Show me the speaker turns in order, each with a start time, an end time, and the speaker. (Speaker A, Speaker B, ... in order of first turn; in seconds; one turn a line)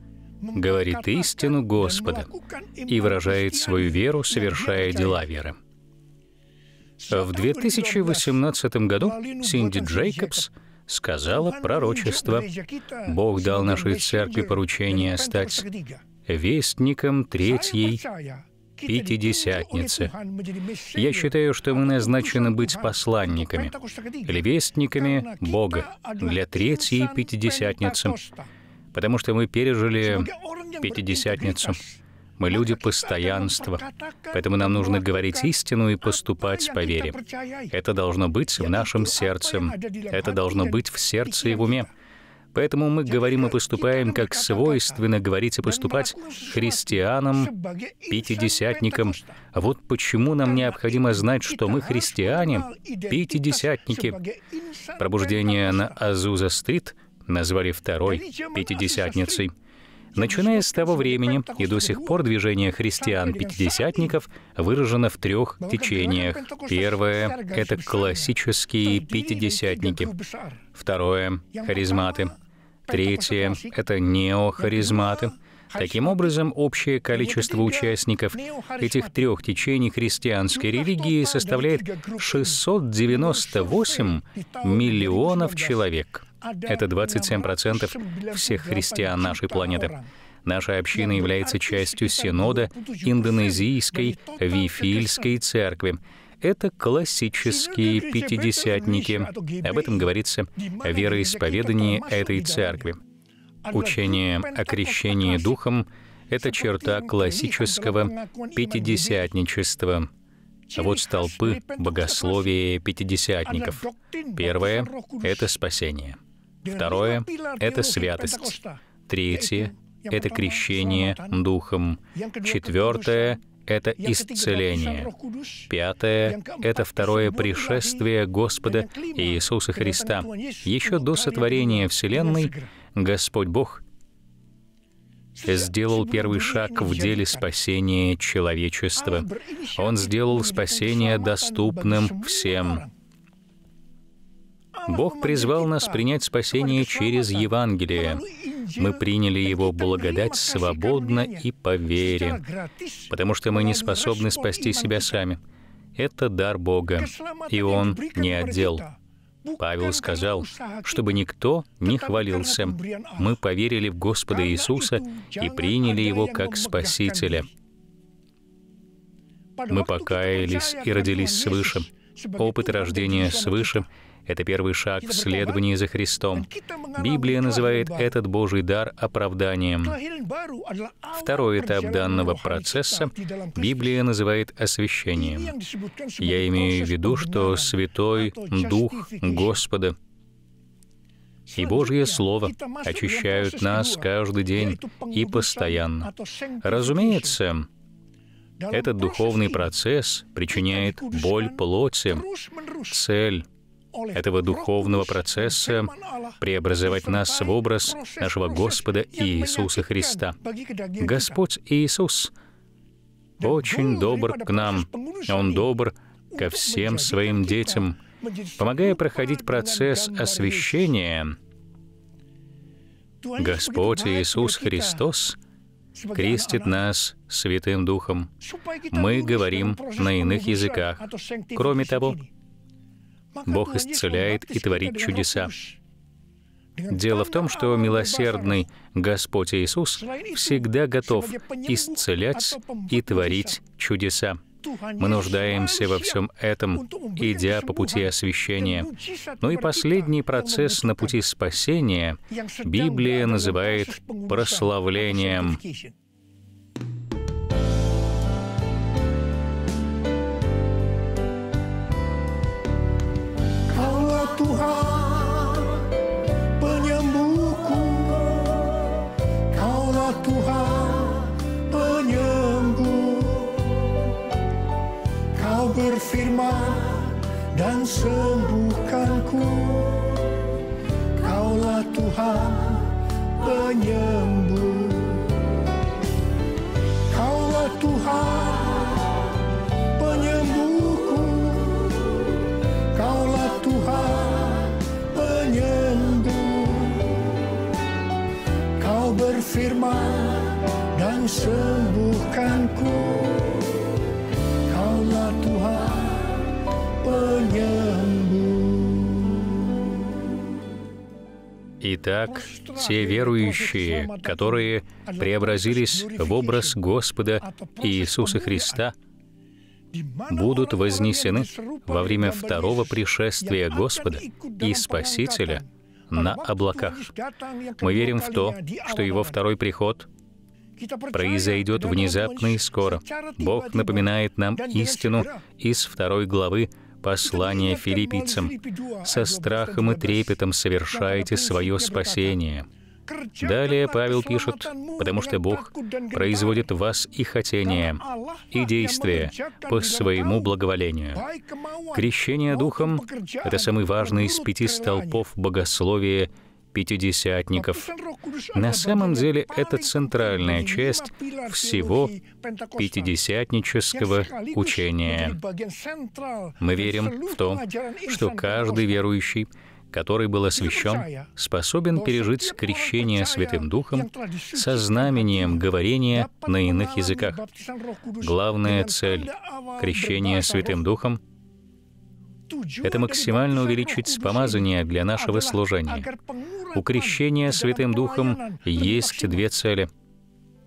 Speaker A: 0.4-5.3
Speaker B: 0.5-2.3
Speaker B: 2.9-5.6
Speaker A: 7.0-8.4
Speaker B: 7.1-12.5
Speaker A: 9.0-10.5
Speaker A: 11.3-16.0
Speaker B: 13.1-15.6
Speaker B: 16.2-18.0
Speaker A: 17.4-28.5
Speaker B: 18.9-20.1
Speaker B: 20.9-23.7
Speaker B: 24.3-28.2
Speaker B: 28.9-30.3
Speaker A: 30.0-37.7
Speaker B: 30.8-31.8
Speaker B: 32.4-33.8
Speaker B: 34.3-37.1
Speaker B: 37.7-41.9
Speaker A: 38.5-41.9
Speaker B: 42.5-47.5
Speaker A: 43.0-45.0
Speaker A: 45.6-49.4
Speaker B: 48.1-54.2
Speaker A: 50.4-56.0
Speaker B: 55.0-59.5
Speaker A: 58.0-59.5
Speaker A: 60.1-62.2
Speaker B: 60.1-70.1
Speaker A: 62.9-64.2
Speaker A: 65.6-70.6
Speaker B: 70.7-72.3
Speaker A: 71.5-73.8
Speaker B: 72.9-103.0
Speaker A: 74.6-76.4
Speaker A: 77.1-79.3
Speaker A: 80.5-85.8
Speaker A: 86.4-90.1
Speaker A: 90.9-95.3
Speaker A: 97.4-103.0
Speaker A: 103.6-105.6
Speaker B: 103.7-110.1
Speaker A: 106.3-109.3
Speaker A: 110.7-112.5
Speaker B: 110.8-113.8
Speaker A: 113.4-115.5
Speaker B: 114.4-116.2
Speaker A: 116.6-121.4
Speaker B: 116.7-125.1
Speaker A: 122.1-123.4
Speaker A: 124.0-125.7
Speaker B: 125.7-133.8
Speaker A: 126.2-128.1
Speaker A: 128.6-132.7
Speaker A: 135.3-137.5
Speaker B: 135.5-142.8
Speaker A: 138.9-142.9
Speaker A: 144.7-155.2
Speaker B: 144.9-148.2
Speaker B: 148.8-152.4
Speaker B: 153.1-155.4
Speaker B: 155.9-158.8
Speaker A: 156.9-161.2
Speaker B: 159.6-167.5
Speaker A: 161.8-163.4
Speaker A: 164.3-167.5
Speaker A: 169.6-173.9
Speaker B: 169.7-180.0
Speaker A: 175.0-175.7
Speaker A: 176.3-178.1
Speaker A: 179.8-184.0
Speaker B: 181.1-185.5
Speaker A: 185.1-189.6
Speaker B: 186.2-189.9
Speaker A: 191.5-197.4
Speaker B: 191.6-196.1
Speaker B: 196.6-197.7
Speaker A: 198.6-199.8
Speaker B: 198.7-202.2
Speaker A: 200.5-203.0
Speaker B: 202.9-203.4
Speaker A: 203.9-211.4
Speaker B: 204.1-210.3
Speaker B: 211.0-212.3
Speaker A: 213.4-215.8
Speaker B: 213.4-218.0
Speaker A: 216.3-221.0
Speaker B: 218.6-221.3
Speaker A: 223.2-225.1
Speaker B: 223.4-225.4
Speaker A: 225.9-226.9
Speaker B: 226.1-228.3
Speaker A: 228.4-232.3
Speaker B: 228.9-231.0
Speaker B: 231.6-232.2
Speaker A: 233.3-235.8
Speaker B: 233.5-235.5
Speaker A: 236.8-238.7
Speaker B: 236.9-244.4
Speaker A: 239.9-243.6
Speaker A: 244.6-251.2
Speaker B: 245.0-255.6
Speaker A: 252.3-255.9
Speaker A: 263.6-266.0
Speaker A: 266.6-274.2
Speaker A: 275.3-280.5
Speaker A: 281.1-285.5
Speaker A: 287.1-289.4
Speaker A: 289.9-297.4
Speaker A: 298.8-303.8
Speaker A: 304.6-309.7
Speaker B: 311.8-318.9
Speaker A: 312.2-316.8
Speaker A: 317.4-318.9
Speaker A: 319.9-329.4
Speaker B: 320.3-327.1
Speaker B: 327.8-330.1
Speaker A: 330.8-335.4
Speaker B: 331.1-338.5
Speaker A: 337.2-342.4
Speaker B: 339.0-342.7
Speaker A: 343.1-346.7
Speaker B: 343.4-351.2
Speaker A: 347.6-350.6
Speaker A: 351.1-355.2
Speaker B: 351.9-357.9
Speaker A: 357.5-363.2
Speaker B: 358.5-362.1
Speaker B: 362.8-365.4
Speaker A: 363.9-369.0
Speaker B: 366.6-377.4
Speaker A: 370.5-371.3
Speaker A: 371.9-380.9
Speaker B: 378.2-381.2
Speaker A: 382.5-389.5
Speaker B: 382.8-386.1
Speaker B: 386.7-389.9